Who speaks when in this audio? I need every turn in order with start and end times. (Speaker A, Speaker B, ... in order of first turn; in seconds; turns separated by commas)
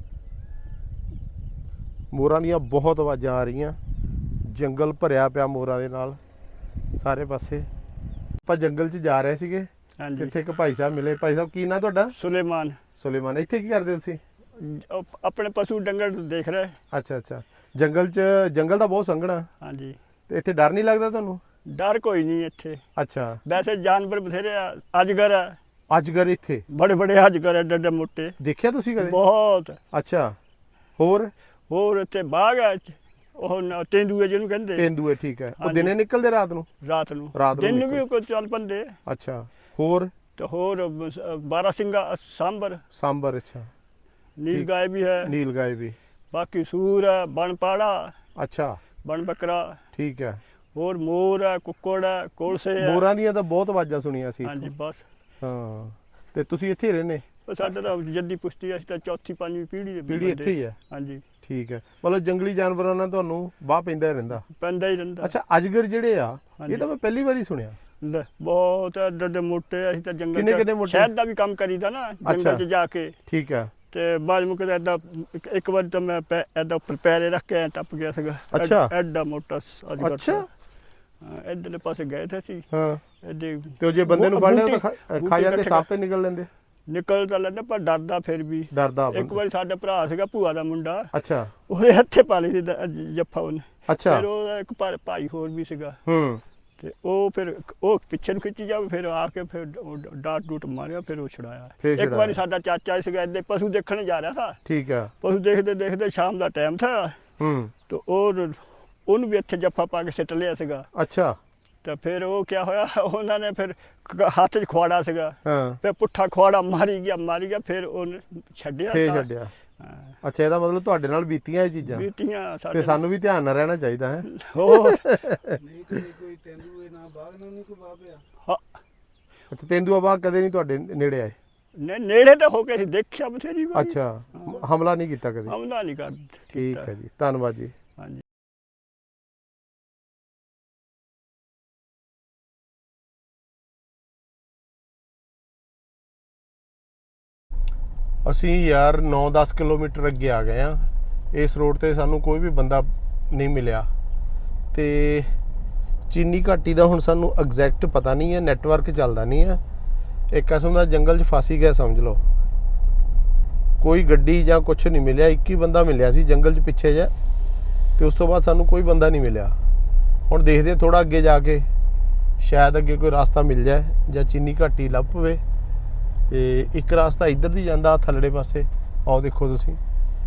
Speaker A: 2.1-3.8, Speaker A: 4.4-6.2, Speaker A: 7.0-7.7, Speaker A: 8.4-12.2, Speaker B: 10.0-10.3, Speaker B: 12.2-12.8, Speaker A: 13.0-14.2, Speaker B: 14.6-16.8, Speaker A: 16.9-19.5, Speaker B: 19.6-20.0, Speaker A: 20.3-21.4, Speaker B: 21.7-22.8, Speaker A: 23.0-23.4, Speaker B: 23.5-25.6, Speaker A: 25.9-26.6, Speaker B: 26.7-28.4, Speaker A: 28.4-29.2, Speaker B: 29.0-29.8, Speaker A: 29.9-30.4, Speaker A: 31.0-31.3, Speaker B: 31.7-34.9, Speaker A: 34.8-36.7, Speaker B: 35.6-35.9, Speaker B: 36.8-39.0, Speaker A: 37.3-38.0, Speaker A: 39.1-40.1, Speaker B: 40.4-42.8, Speaker A: 42.9-43.7, Speaker B: 44.4-45.3, Speaker A: 45.2-46.0, Speaker B: 46.3-48.1, Speaker A: 48.4-48.8, Speaker B: 49.0-49.8, Speaker A: 50.0-50.4, Speaker B: 50.8-53.0, Speaker A: 52.8-54.7, Speaker B: 54.5-55.0, Speaker A: 55.4-57.2, Speaker B: 57.5-61.2, Speaker A: 60.1-60.8, Speaker A: 61.4-64.5, Speaker B: 64.5-65.3, Speaker A: 65.2-67.8, Speaker B: 66.6-66.8, Speaker B: 68.0-73.2, Speaker A: 70.3-71.1, Speaker A: 72.2-72.6, Speaker A: 73.3-73.7, Speaker B: 73.9-80.5, Speaker A: 78.5-78.9, Speaker A: 80.0-80.5, Speaker B: 81.2-82.7, Speaker A: 82.7-83.0, Speaker B: 83.2-85.8, Speaker A: 83.8-86.5, Speaker B: 86.9-91.1, Speaker A: 88.7-89.4, Speaker A: 91.1-91.5, Speaker B: 91.7-96.0, Speaker A: 93.9-94.2, Speaker A: 96.1-96.4, Speaker B: 96.8-104.6, Speaker A: 101.8-102.4, Speaker A: 104.7-105.1, Speaker B: 105.2-107.2, Speaker A: 107.4-107.7, Speaker B: 107.9-110.9, Speaker A: 111.0-111.4, Speaker B: 111.8-119.3, Speaker A: 115.5-115.8, Speaker A: 118.9-119.5, Speaker B: 119.8-120.1, Speaker A: 120.2-122.1, Speaker B: 121.9-123.0, Speaker A: 122.7-125.6, Speaker B: 124.3-125.0, Speaker C: 125.6-128.2, Speaker A: 129.5-131.4, Speaker B: 131.8-134.6, Speaker A: 133.7-135.6, Speaker B: 135.5-136.9, Speaker A: 136.5-137.7, Speaker A: 148.2-153.9, Speaker A: 154.7-155.3, Speaker A: 156.1-159.6, Speaker A: 160.3-162.2, Speaker A: 163.8-167.1, Speaker A: 168.0-169.6, Speaker A: 170.3-171.7, Speaker A: 172.4-175.4, Speaker A: 176.3-179.8